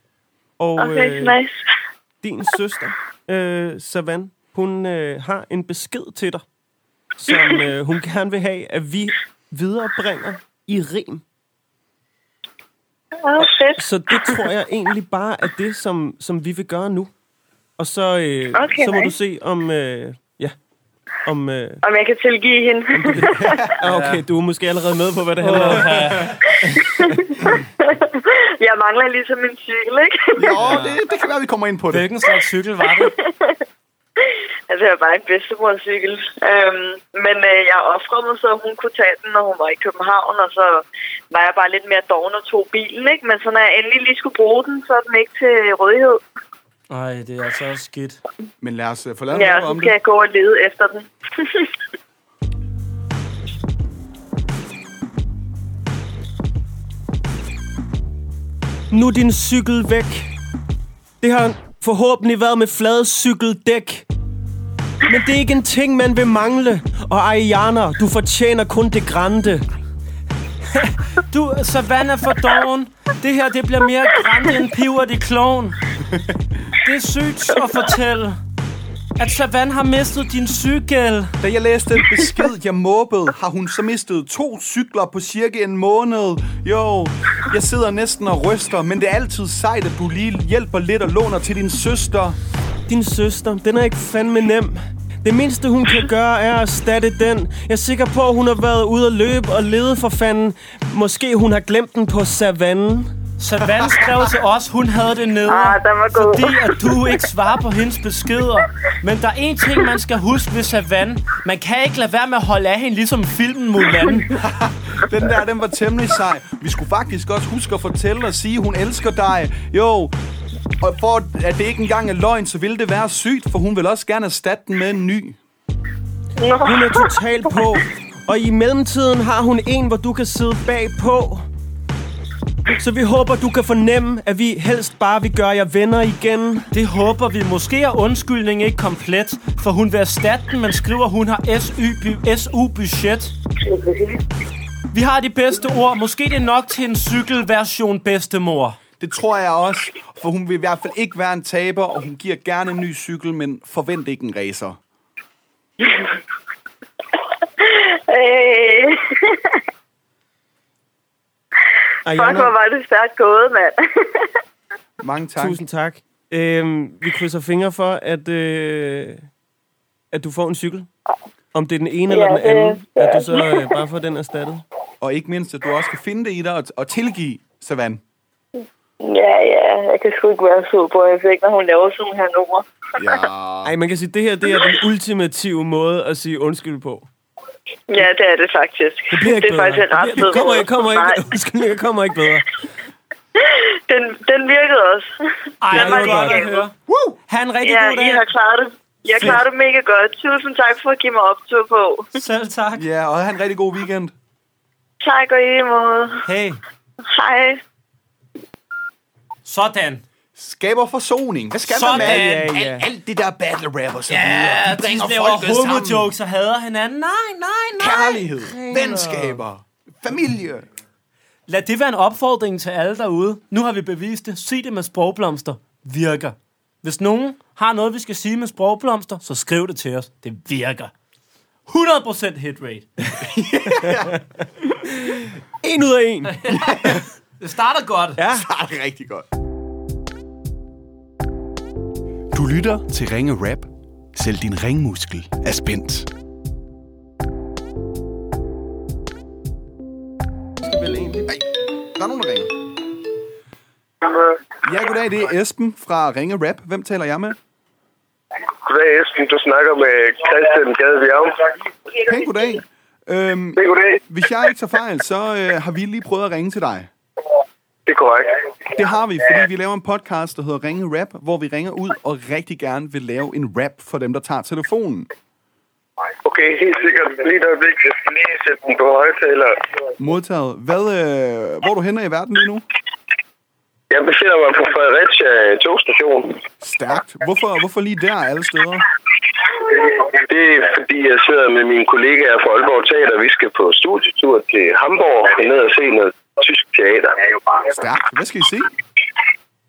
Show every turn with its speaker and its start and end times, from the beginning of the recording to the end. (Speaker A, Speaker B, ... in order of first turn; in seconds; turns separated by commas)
Speaker A: 0.6-1.4, Speaker B: 0.8-1.6, Speaker A: 2.2-6.5, Speaker A: 7.2-11.2, Speaker B: 13.2-14.4, Speaker A: 13.8-17.1, Speaker A: 17.8-20.6, Speaker B: 18.5-19.1, Speaker A: 21.2-21.8, Speaker B: 21.8-23.7, Speaker A: 22.9-27.2, Speaker C: 23.4-23.7, Speaker D: 23.9-24.2, Speaker D: 25.4-26.3, Speaker B: 26.8-30.8, Speaker C: 30.4-32.1, Speaker D: 30.6-31.0, Speaker D: 31.9-33.1, Speaker B: 32.9-33.6, Speaker B: 34.7-46.2, Speaker D: 46.9-48.2, Speaker C: 48.6-50.0, Speaker B: 49.3-51.7, Speaker A: 58.9-60.3, Speaker A: 61.2-64.1, Speaker A: 65.1-69.7, Speaker D: 70.7-75.8, Speaker D: 76.8-78.4, Speaker D: 79.2-81.4, Speaker C: 81.4-92.4, Speaker A: 92.9-103.2, Speaker D: 103.4-114.3, Speaker B: 105.5-107.1, Speaker C: 114.4-120.1, Speaker C: 120.8-125.4, Speaker B: 126.4-127.8, Speaker A: 126.7-131.5, Speaker A: 132.7-136.7, Speaker D: 136.7-143.3, Speaker D: 144.9-148.8, Speaker C: 149.0-154.8, Speaker B: 157.7-159.4, Speaker A: 162.1-162.5, Speaker B: 162.1-164.2, Speaker C: 165.0-165.6, Speaker A: 165.4-169.3, Speaker A: 170.1-170.9, Speaker A: 171.5-174.7, Speaker B: 172.1-173.8, Speaker C: 175.0-178.0, Speaker B: 179.0-182.7, Speaker C: 183.0-183.7, Speaker A: 183.6-187.1, Speaker B: 187.9-191.3, Speaker A: 189.1-192.5, Speaker B: 193.9-195.1, Speaker D: 195.6-196.7, Speaker B: 195.7-196.7, Speaker A: 195.8-196.2, Speaker C: 196.9-197.2, Speaker D: 197.3-198.3, Speaker B: 197.6-202.1, Speaker D: 202.2-202.8, Speaker C: 202.8-204.1, Speaker B: 205.0-206.2, Speaker D: 206.2-206.6, Speaker B: 207.1-207.6, Speaker D: 209.4-210.0, Speaker C: 210.4-216.1, Speaker D: 211.7-212.6, Speaker A: 211.8-212.9, Speaker D: 214.1-218.3, Speaker C: 217.8-220.7, Speaker A: 218.4-219.4, Speaker D: 221.5-230.9, Speaker D: 231.7-232.9, Speaker C: 233.2-234.2, Speaker A: 234.9-236.4, Speaker D: 236.3-238.2, Speaker C: 236.7-237.0, Speaker A: 238.2-238.4, Speaker C: 238.4-239.3, Speaker C: 242.3-246.1, Speaker A: 250.6-251.3, Speaker C: 251.3-252.5, Speaker C: 254.6-257.4, Speaker E: 258.6-261.4, Speaker C: 262.0-266.9, Speaker E: 263.6-264.0, Speaker E: 267.9-268.4, Speaker C: 268.8-275.1, Speaker E: 276.2-279.6, Speaker C: 280.0-282.6, Speaker E: 283.9-286.4, Speaker C: 286.6-288.9, Speaker E: 290.2-297.6, Speaker C: 297.7-298.7